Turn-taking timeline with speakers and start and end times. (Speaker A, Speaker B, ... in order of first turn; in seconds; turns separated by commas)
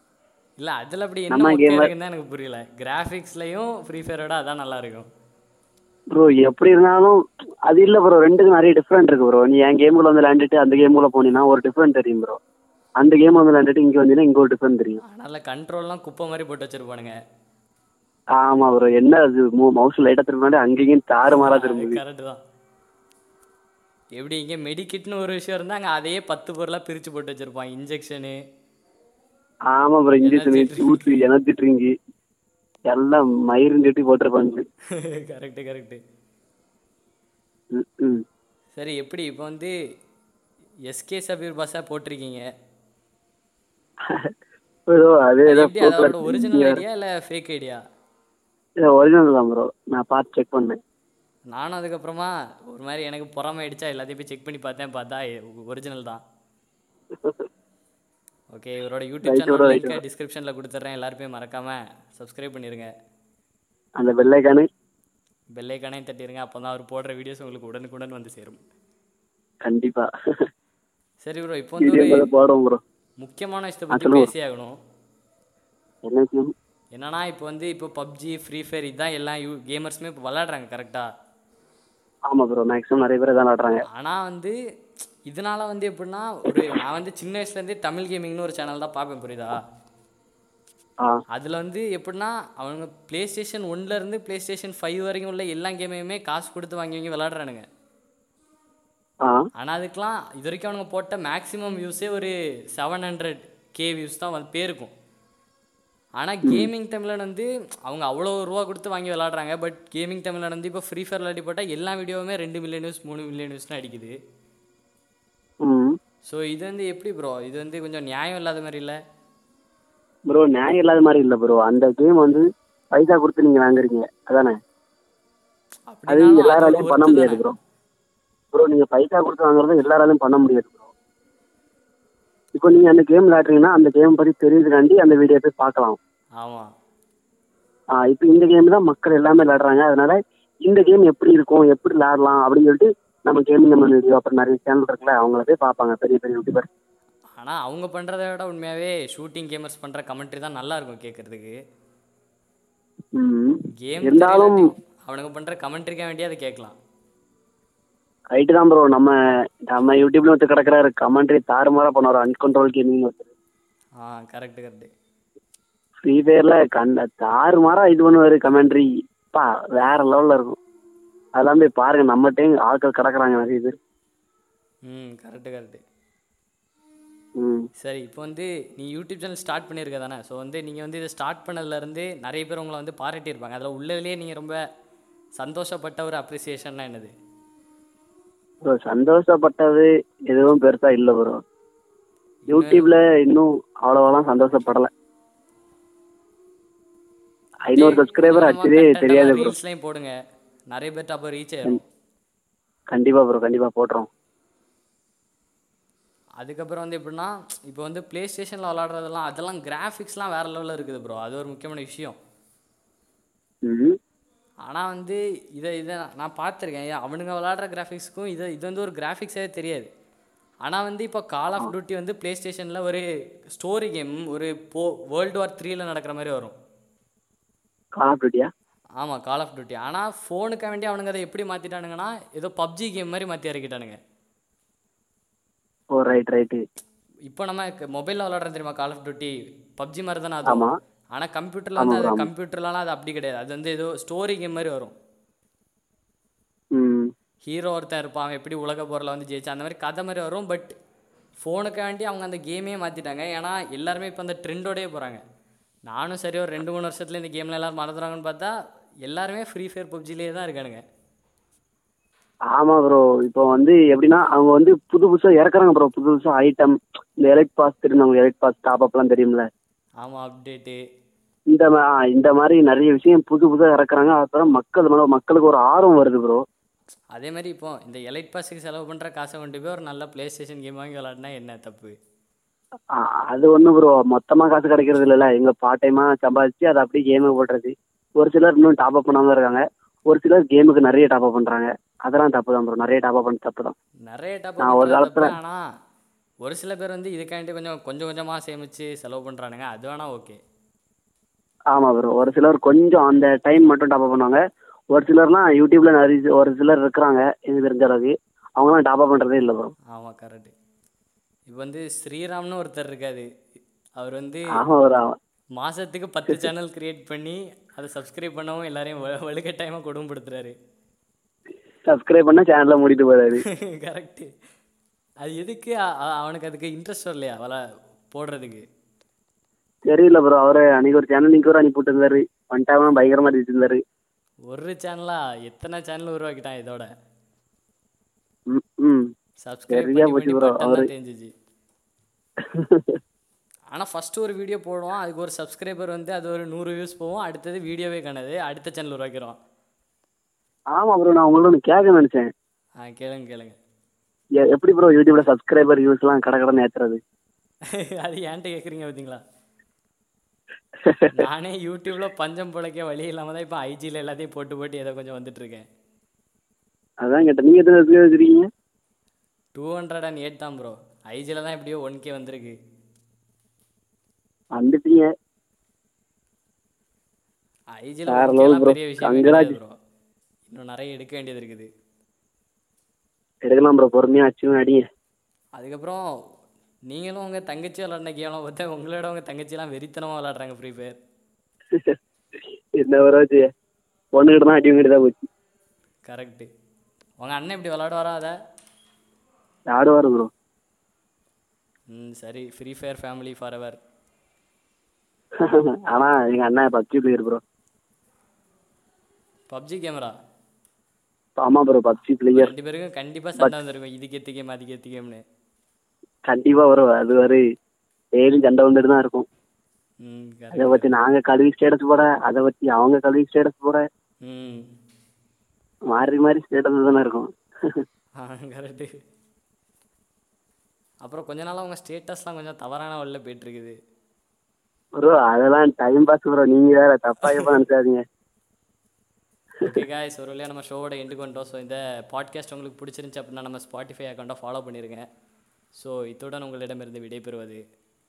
Speaker A: 0.6-5.0, Speaker B: 1.3-1.9, Speaker B: 6.1-7.1, Speaker B: 7.7-12.3, Speaker B: 13.0-15.0, Speaker A: 15.0-17.1, Speaker B: 18.4-22.0, Speaker A: 21.2-22.4, Speaker A: 24.1-28.4, Speaker B: 29.7-31.9, Speaker A: 30.2-31.1, Speaker B: 32.9-34.6, Speaker A: 35.0-36.0, Speaker B: 37.7-38.2, Speaker A: 38.7-39.7, Speaker A: 40.9-42.4, Speaker B: 44.9-46.8, Speaker A: 45.5-47.8, Speaker B: 48.8-50.7, Speaker A: 51.5-56.2, Speaker A: 58.5-62.9, Speaker B: 59.2-60.0, Speaker B: 64.0-64.6, Speaker A: 65.5-68.6, Speaker B: 69.7-70.1, Speaker A: 71.2-72.2, Speaker B: 71.8-72.8, Speaker A: 73.2-74.7, Speaker B: 73.9-74.3, Speaker B: 76.0-76.5, Speaker A: 76.9-81.1, Speaker B: 82.3-83.8, Speaker A: 83.9-84.5, Speaker A: 85.3-89.5, Speaker A: 91.3-97.6, Speaker A: 99.6-104.9, Speaker A: 106.2-114.1, Speaker B: 106.4-106.7, Speaker B: 115.6-115.9, Speaker A: 116.3-119.0, Speaker B: 120.3-124.5, Speaker A: 125.9-127.4, Speaker B: 126.1-127.5, Speaker B: 128.5-130.9, Speaker B: 132.5-136.0, Speaker A: 136.4-136.7, Speaker B: 138.0-140.1, Speaker B: 140.7-146.7, Speaker A: 147.4-151.5, Speaker B: 153.2-154.6, Speaker A: 153.8-156.7, Speaker B: 158.3-159.1, Speaker B: 159.7-163.3, Speaker A: 164.0-164.9, Speaker B: 166.0-170.6, Speaker B: 171.4-173.7, Speaker A: 174.8-175.8, Speaker B: 177.4-177.6, Speaker A: 177.8-184.6, Speaker A: 185.4-187.1, Speaker B: 188.6-191.4, Speaker A: 192.5-192.9, Speaker B: 192.5-194.9, Speaker B: 197.7-199.5, Speaker A: 197.7-200.1, Speaker A: 200.7-201.8, Speaker B: 202.9-204.1, Speaker A: 206.4-212.2, Speaker B: 213.7-213.9, Speaker A: 214.6-219.9, Speaker A: 220.6-226.5, Speaker B: 228.0-228.5, Speaker A: 229.0-234.0, Speaker B: 235.9-236.6, Speaker A: 237.3-244.9, Speaker B: 241.8-242.3, Speaker B: 246.7-247.0, Speaker A: 247.4-250.7, Speaker A: 251.4-255.2, Speaker A: 255.9-258.5, Speaker A: 259.1-260.8, Speaker B: 262.5-269.4, Speaker A: 270.0-270.8, Speaker B: 271.5-276.4, Speaker A: 277.1-281.9, Speaker B: 283.0-293.7, Speaker A: 294.1-295.6, Speaker B: 294.6-295.3, Speaker A: 296.4-300.4, Speaker B: 301.7-304.4, Speaker B: 304.9-309.7, Speaker A: 309.9-310.5, Speaker A: 311.5-313.2, Speaker A: 314.0-314.4, Speaker B: 314.6-315.1, Speaker A: 315.5-320.5, Speaker B: 321.9-323.4, Speaker A: 323.4-324.3, Speaker A: 325.2-327.6, Speaker A: 328.1-328.6, Speaker B: 329.9-333.8, Speaker A: 334.5-336.9, Speaker B: 338.5-339.0, Speaker A: 339.4-341.3, Speaker B: 339.7-340.9, Speaker B: 342.4-343.0, Speaker A: 343.7-349.4, Speaker B: 350.7-352.3, Speaker A: 352.8-353.5, Speaker B: 354.4-357.0, Speaker A: 357.7-359.2, Speaker B: 360.8-361.1, Speaker A: 361.1-365.6, Speaker B: 367.0-368.4, Speaker A: 369.5-372.6, Speaker B: 374.5-375.1, Speaker A: 377.8-379.7, Speaker B: 378.1-379.6, Speaker A: 380.5-381.7, Speaker B: 383.4-384.8, Speaker A: 385.6-386.0, Speaker A: 386.9-391.0, Speaker B: 392.8-393.4, Speaker B: 394.1-395.2, Speaker A: 396.1-396.5, Speaker A: 397.2-398.3, Speaker B: 399.7-400.3, Speaker A: 401.9-403.8, Speaker B: 405.4-407.4, Speaker A: 409.5-410.1, Speaker B: 411.4-412.5, Speaker A: 412.3-415.2, Speaker B: 416.3-417.4, Speaker B: 418.2-419.2, Speaker A: 420.0-420.9, Speaker B: 420.5-423.8, Speaker A: 424.2-424.7, Speaker B: 425.9-427.3, Speaker A: 428.2-428.9, Speaker A: 431.0-433.8, Speaker B: 435.0-438.0, Speaker A: 439.6-445.0, Speaker A: 445.8-447.6